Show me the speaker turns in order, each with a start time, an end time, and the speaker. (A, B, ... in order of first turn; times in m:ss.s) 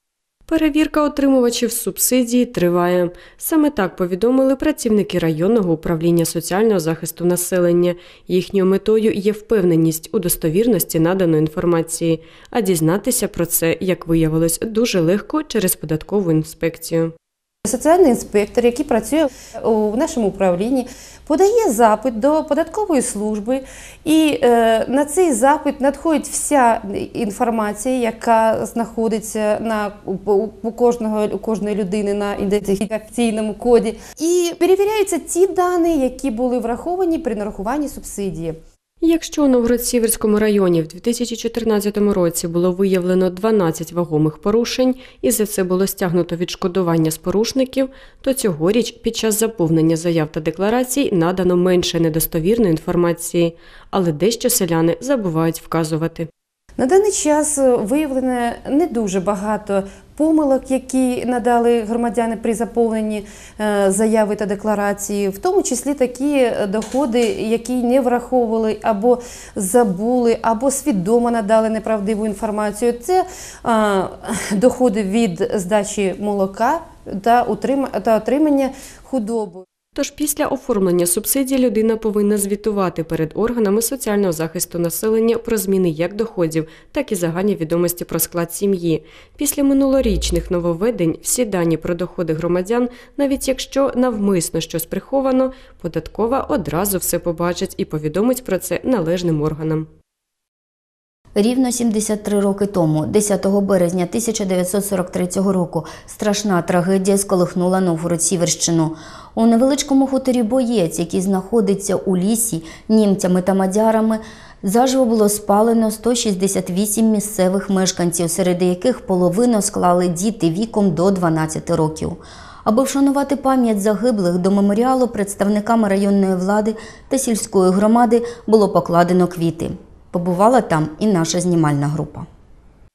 0:00.5-0:17.1 A
0:17.6-0:38.6 B
0:39.0-0:56.3 A
0:56.8-1:19.6 B
1:19.9-1:39.9 A
1:41.4-2:12.3 C